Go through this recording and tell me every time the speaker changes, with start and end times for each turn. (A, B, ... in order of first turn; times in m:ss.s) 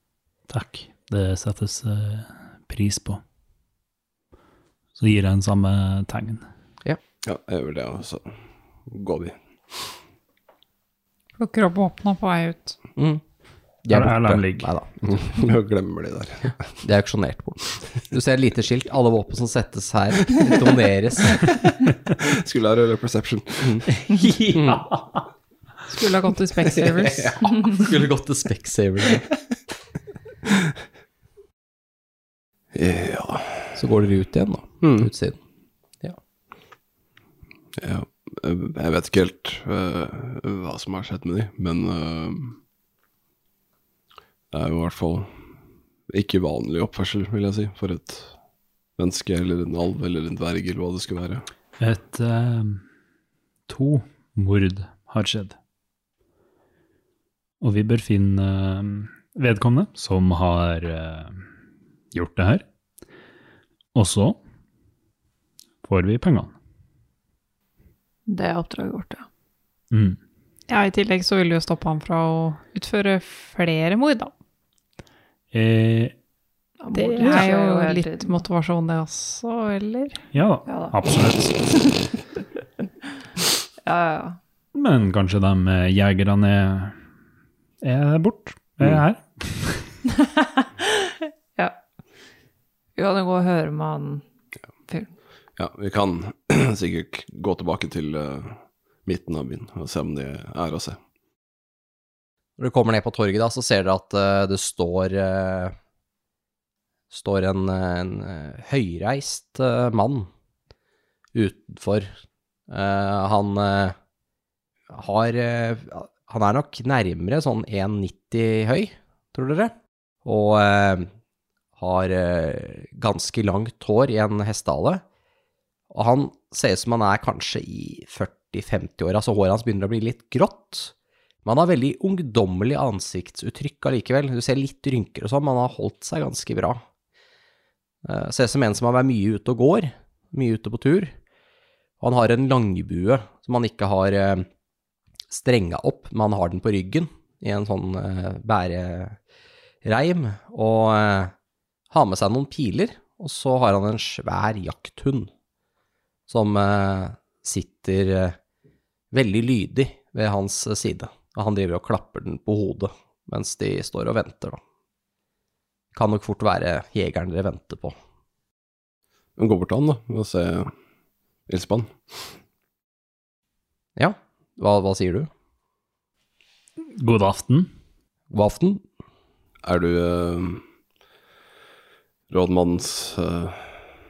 0:00.5-0:03.2 A
0:05.0-0:06.4 A
0:07.2-0:09.9 B
0:11.4-0:12.8 C
0:13.0-0:13.2 D
0:13.8-0:15.4 D
0:13.9-0:14.7 A
0:15.1-0:16.7 B
0:16.8-0:21.5 D
0:22.2-0:23.9 B
0:24.0-0:25.3 A
0:24.5-0:24.8 D
0:25.9-0:27.9 C
0:26.8-0:27.5 B
0:27.2-0:29.2 D
0:32.7-0:33.8 B
0:33.8-0:35.4 D
0:34.8-0:35.1 B
0:37.8-0:42.6 B
0:44.5-0:45.3 B
0:46.1-0:48.3 B
0:49.0-0:51.5 B
0:51.8-0:52.8 A
0:53.7-0:55.6 A
0:57.6-1:01.4 A
1:02.1-1:02.6 A
1:04.0-1:04.4 A
1:05.8-1:06.5 A
1:08.3-1:09.3 E
1:09.9-1:10.2 A
1:10.7-1:14.3 C
1:15.5-1:16.1 A
1:16.8-1:18.4 E
1:16.9-1:20.2 C
1:20.3-1:21.9 A
1:20.7-1:21.0 E
1:23.8-1:24.4 E
1:24.7-1:27.0 A
1:27.8-1:29.9 A
1:30.2-1:31.8 E
1:33.0-1:34.2 E
1:35.6-1:41.0 B
1:42.6-1:45.8 D
1:47.1-1:50.3 D
1:51.3-1:52.1 D
1:52.7-1:54.0 D
1:54.9-1:59.7 D
2:00.2-2:01.1 D
2:01.8-2:05.0 D
2:05.9-2:10.9 D
2:11.4-2:16.8 D
2:18.0-2:21.1 D
2:22.0-2:24.5 D
2:25.3-2:29.2 D
2:29.8-2:31.3 D
2:31.9-2:35.3 D
2:36.3-2:38.4 D
2:39.1-2:44.6 D
2:45.9-2:48.0 D
2:49.4-2:50.7 B
2:51.5-2:52.4 B
2:54.0-2:55.3 D
2:56.9-2:57.7 A
2:58.3-2:58.8 D
2:59.6-3:00.6 B
3:02.3-3:03.9 B